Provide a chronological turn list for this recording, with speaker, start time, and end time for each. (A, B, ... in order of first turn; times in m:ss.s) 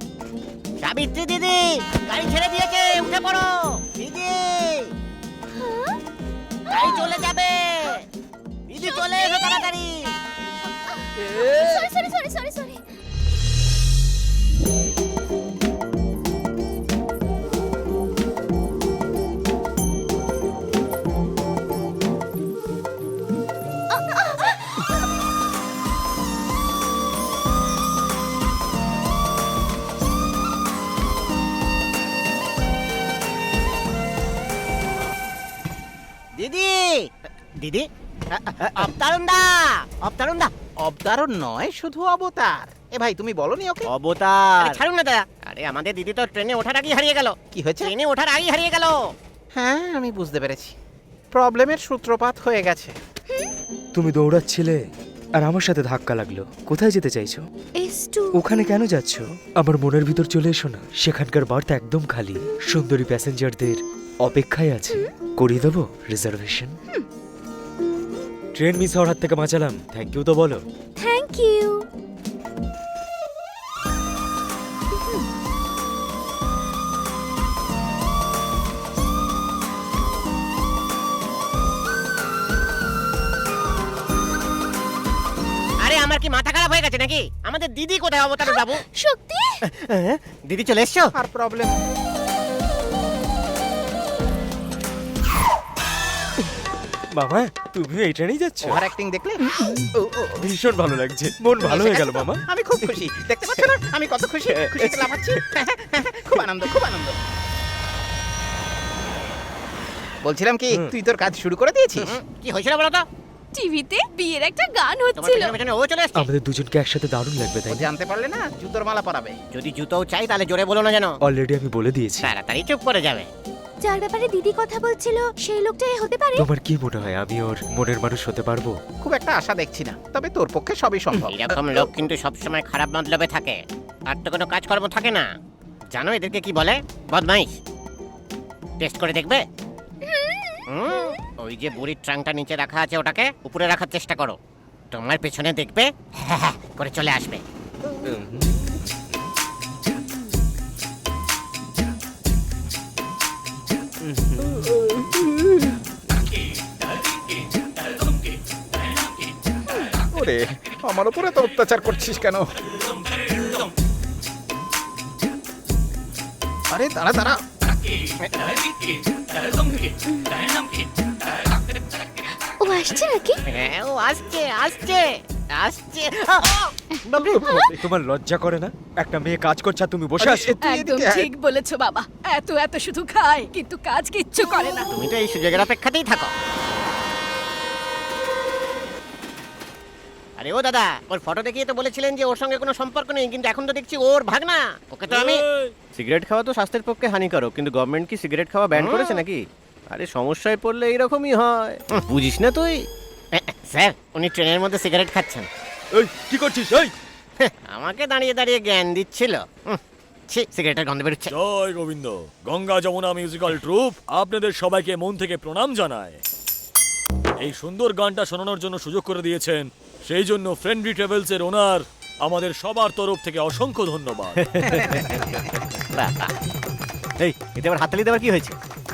0:00.8-0:04.9 A
0:05.6-0:06.0 B
0:06.7-0:08.0 A
0:08.7-0:10.1 A
0:08.8-0:09.6 B
0:10.9-0:12.8 B
0:23.9-0:24.6 B
0:36.4-0:37.1 A
0:37.6-0:40.5 A
0:40.8-0:43.9 C
0:43.9-0:44.3 D
0:44.6-0:49.0 A
0:47.5-0:47.9 C
0:49.5-0:50.7 C
0:51.3-0:52.9 C
0:53.9-0:54.8 E
0:55.4-0:57.4 E
0:57.8-0:58.3 B
0:58.3-1:06.8 E
1:08.6-1:10.6 E
1:11.0-1:11.8 B
1:25.8-1:28.8 A
1:29.0-1:29.5 B
1:29.8-1:31.1 A
1:31.2-1:31.8 C
1:37.1-1:38.8 E
1:38.6-1:40.5 C
1:40.4-1:42.9 E
1:41.6-1:47.2 C
1:44.6-1:45.1 E
1:50.2-1:52.1 C
1:52.0-1:53.0 A
1:53.5-1:55.5 B
1:55.2-1:56.3 A
1:56.1-1:57.8 E
1:57.7-1:59.3 C
1:59.5-2:01.1 A
2:01.2-2:02.3 E
2:02.2-2:03.3 A
2:03.8-2:06.4 B
2:06.4-2:08.7 E
2:09.0-2:11.5 C
2:11.3-2:15.2 A
2:15.9-2:17.5 A
2:18.8-2:19.4 A
2:20.2-2:20.4 F
2:20.7-2:24.4 A
2:24.9-2:27.4 A
2:28.0-2:28.8 E
2:34.0-2:34.5 E
2:40.1-2:42.4 C
2:46.7-2:47.4 C
2:52.6-2:53.4 B
2:53.5-2:57.7 A
2:57.7-3:00.6 E
3:00.2-3:01.3 C
3:00.6-3:04.9 F
3:04.9-3:06.3 A
3:10.4-3:15.4 A
3:15.1-3:15.7 G
3:15.9-3:22.8 D
3:18.7-3:19.2 A
3:23.3-3:25.5 A
3:26.0-3:26.9 E
3:27.4-3:31.3 A
3:31.3-3:36.2 G
3:37.4-3:45.0 G
3:46.0-3:46.3 A
3:47.2-3:47.5 D
3:47.5-3:48.5 A